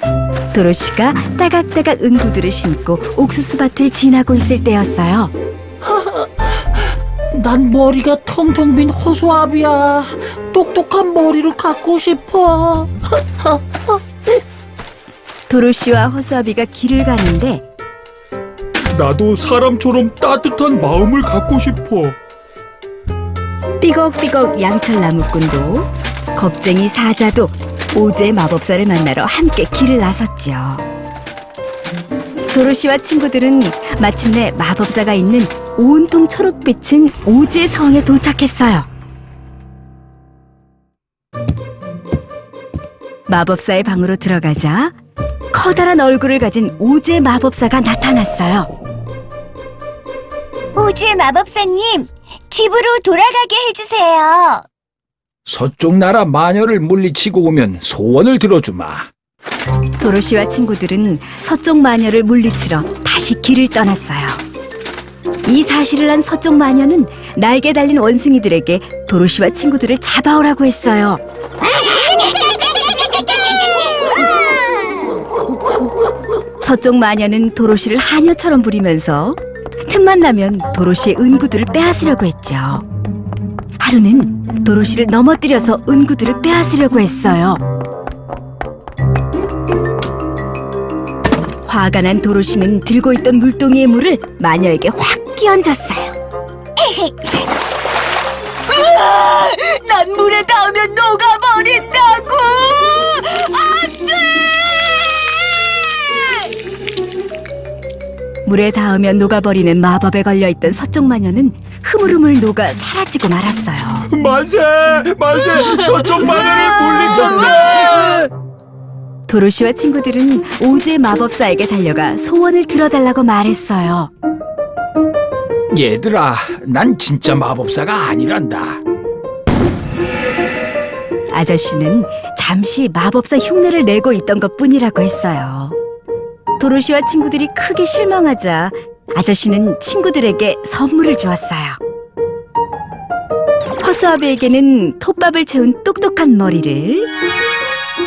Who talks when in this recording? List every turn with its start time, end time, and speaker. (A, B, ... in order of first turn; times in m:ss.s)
0:00.5-0:05.3 A
0:07.4-0:12.9 B
0:15.5-0:17.6 A
0:18.9-0:22.2 C
0:23.8-0:30.9 A
0:32.5-0:38.9 A
0:43.3-0:44.9 A
0:45.5-0:48.7 A
0:50.8-0:54.6 D
0:55.5-0:59.1 E
1:00.0-1:04.4 A
1:05.4-1:11.2 A
1:11.7-1:15.0 D
1:16.6-1:22.9 A
1:23.8-1:27.6 A
1:31.7-1:36.2 A
1:36.8-1:37.4 D
1:38.7-1:44.2 D
1:48.4-1:54.1 A
1:54.1-1:58.3 C
1:59.3-2:04.1 A
2:05.7-2:08.8 E
2:11.3-2:15.8 A
2:16.6-2:21.8 A
2:23.8-2:27.1 A